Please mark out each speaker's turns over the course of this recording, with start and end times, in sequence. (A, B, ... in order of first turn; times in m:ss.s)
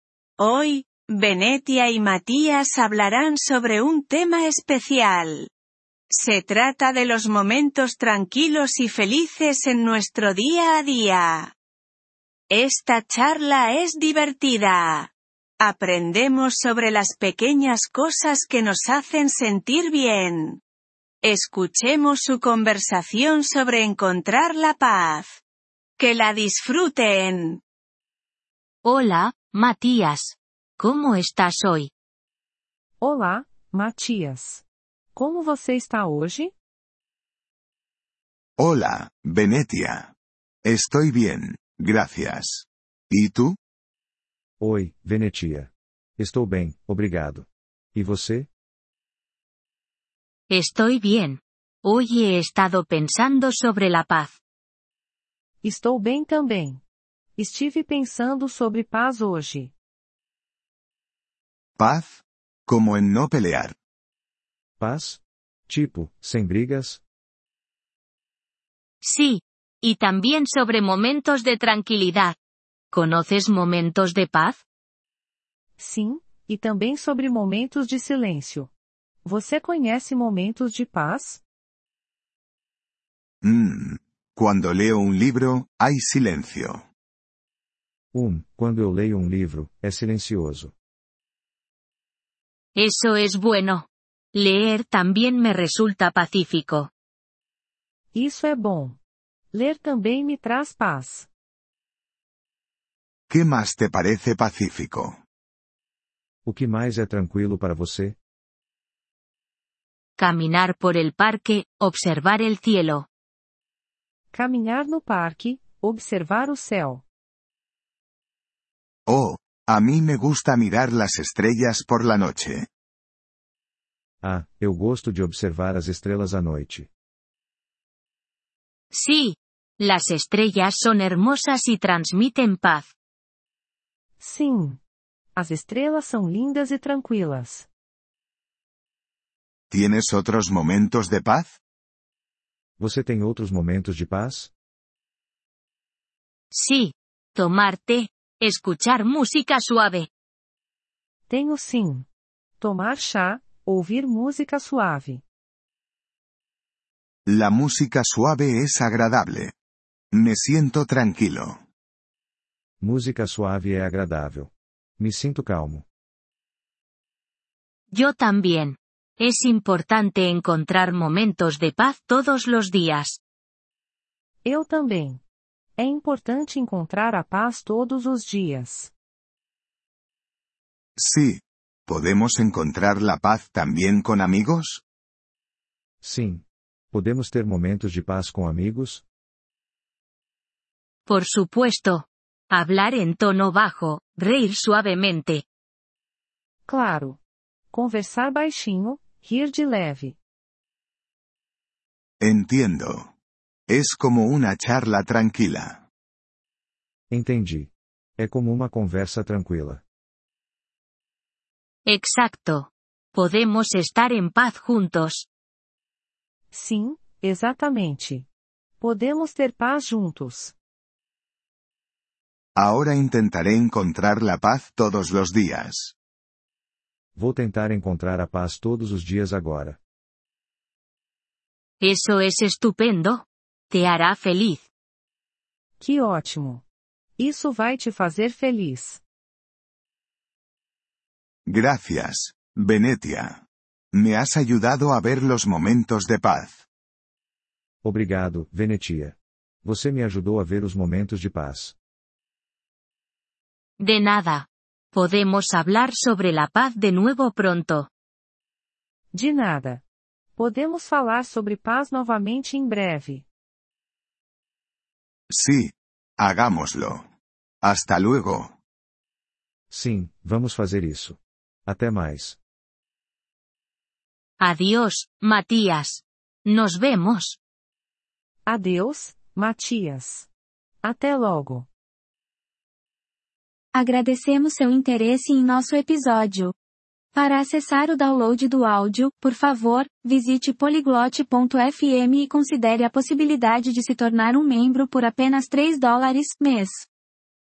0:00.4-0:05.5 A
0:06.1-0:11.5 A
0:12.5-0:20.6 A
0:21.2-0:25.4 A
0:26.0-0:27.6 A
0:28.8-0:31.9 B
0:33.0-0:36.5 C
0:38.6-0:40.1 D
0:40.6-0:43.6 D
0:44.6-0:48.5 E
0:50.5-0:54.4 B
0:55.6-0:56.8 C
0:57.4-0:59.7 C
1:01.8-1:03.7 D
1:04.8-1:07.0 E
1:09.0-1:12.4 B
1:12.9-1:14.6 B
1:15.8-1:18.7 C
1:19.2-1:21.4 C
1:23.4-1:26.8 D
1:28.1-1:30.7 E
1:32.8-1:36.9 B
1:38.1-1:39.0 C
1:39.5-1:41.3 C
1:43.3-1:45.2 D
1:46.4-1:48.2 E
1:50.2-1:53.1 B
1:54.3-1:57.0 C
1:59.1-2:02.7 D
2:04.2-2:06.9 E
2:08.9-2:12.9 B
2:14.2-2:14.8 C
2:15.3-2:17.7 C
2:19.7-2:21.6 D
2:22.8-2:24.5 E
2:26.5-2:30.1 B
2:31.3-2:32.0 C
2:32.6-2:35.2 C
2:37.3-2:39.5 D
2:40.1-2:41.6 D
2:42.8-2:45.8 E
2:47.9-2:53.2 B
2:54.4-2:55.2 C
2:55.8-2:58.9 C
3:01.0-3:04.8 D
3:06.0-3:09.0 E
3:11.1-3:15.4 B
3:16.7-3:17.2 C
3:17.7-3:20.2 C
3:22.2-3:23.1 D
3:23.7-3:25.8 D
3:27.1-3:29.8 E
3:31.8-3:35.3 B
3:36.5-3:38.3 C
3:38.8-3:40.5 C
3:42.6-3:45.9 D
3:47.2-3:49.8 E
3:51.8-3:54.6 B
3:55.8-3:56.6 C
3:57.2-3:59.0 C
4:01.5-4:06.6 D
4:07.8-4:11.8 E
4:13.8-4:17.9 B
4:19.1-4:19.8 C
4:20.4-4:23.2 C
4:25.3-4:27.1 D
4:27.6-4:28.5 D
4:29.7-4:32.4 E
4:34.4-4:37.4 B
4:38.4-4:40.3 C
4:40.8-4:41.7 C
4:43.7-4:46.5 F
4:47.1-4:56.9 F